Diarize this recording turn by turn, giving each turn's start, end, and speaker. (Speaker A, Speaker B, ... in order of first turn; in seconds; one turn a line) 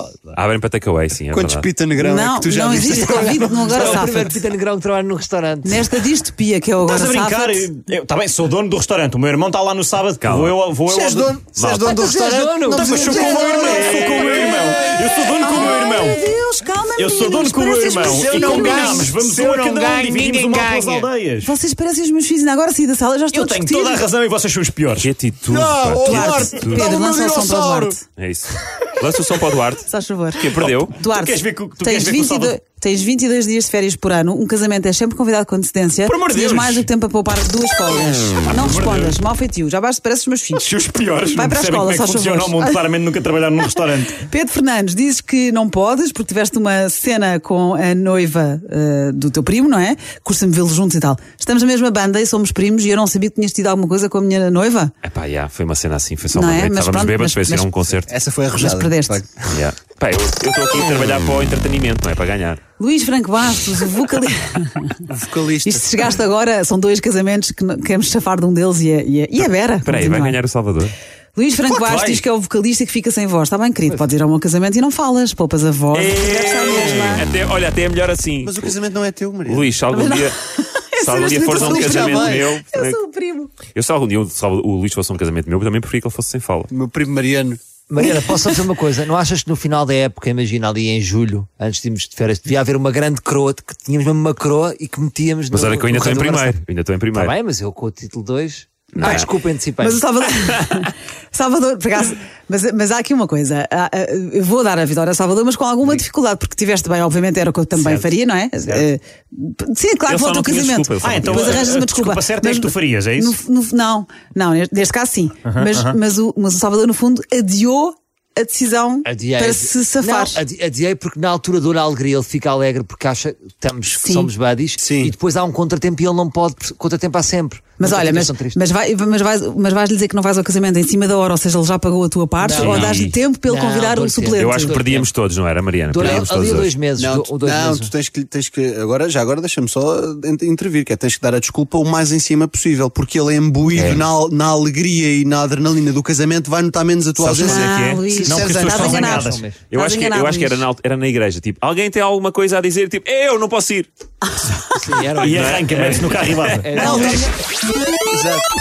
Speaker A: 0.3-1.7
Speaker B: 1.3-3.8
Speaker C: 2.0-4.4
Speaker D: 2.7-5.8
Speaker C: 5.6-7.7
Speaker E: 6.8-11.3
Speaker A: 10.2-10.6
Speaker B: 10.8-14.4
Speaker A: 11.6-11.9
Speaker D: 11.9-13.6
Speaker E: 12.7-16.2
Speaker C: 13.6-14.8
Speaker A: 13.7-14.3
Speaker C: 15.4-19.1
Speaker E: 17.0-21.5
Speaker B: 18.0-19.9
Speaker D: 20.0-21.1
Speaker C: 21.4-24.0
Speaker E: 23.3-25.1
Speaker A: 25.0-26.9
Speaker B: 25.5-27.9
Speaker C: 26.0-28.0
Speaker A: 28.2-30.9
Speaker C: 29.9-40.7
Speaker E: 30.6-32.5
Speaker E: 36.0-36.9
Speaker E: 38.5-39.2
Speaker E: 40.5-44.2
Speaker C: 41.3-42.8
Speaker C: 44.1-54.9
Speaker A: 55.0-58.1
Speaker C: 56.3-57.7
Speaker B: 58.1-59.6
Speaker C: 58.5-59.2
Speaker A: 59.5-62.6
Speaker C: 62.8-65.0
Speaker B: 65.0-66.1
Speaker C: 65.6-70.4
Speaker A: 69.4-70.9
Speaker C: 71.3-77.3
Speaker E: 71.7-72.2
Speaker A: 75.9-78.7
Speaker B: 78.4-80.0
Speaker A: 79.5-80.3
Speaker C: 79.9-83.5
Speaker A: 81.0-83.0
Speaker B: 81.5-82.5
Speaker A: 83.7-86.7
Speaker B: 86.7-87.6
Speaker D: 87.9-96.6
Speaker A: 95.5-97.3
Speaker D: 97.1-100.0
Speaker A: 99.0-99.3
Speaker C: 99.0-99.3
Speaker C: 99.8-120.4
Speaker A: 110.1-111.7
Speaker E: 111.0-113.4
Speaker E: 115.4-116.0
Speaker D: 119.0-128.6
Speaker C: 124.0-124.3
Speaker B: 124.8-125.1
Speaker C: 127.8-134.8
Speaker D: 132.4-135.1
Speaker A: 132.6-133.1
Speaker A: 134.4-136.7
Speaker D: 135.9-137.9
Speaker B: 136.0-136.3
Speaker B: 136.9-149.1
Speaker A: 143.7-144.1
Speaker A: 147.2-148.1
Speaker C: 147.4-150.7
Speaker E: 148.2-149.4
Speaker D: 148.8-149.6
Speaker A: 149.7-153.9
Speaker C: 154.3-154.8
Speaker D: 154.8-155.6
Speaker E: 155.2-156.9
Speaker A: 155.2-157.2
Speaker D: 156.6-157.2
Speaker C: 156.8-157.3
Speaker B: 158.1-158.5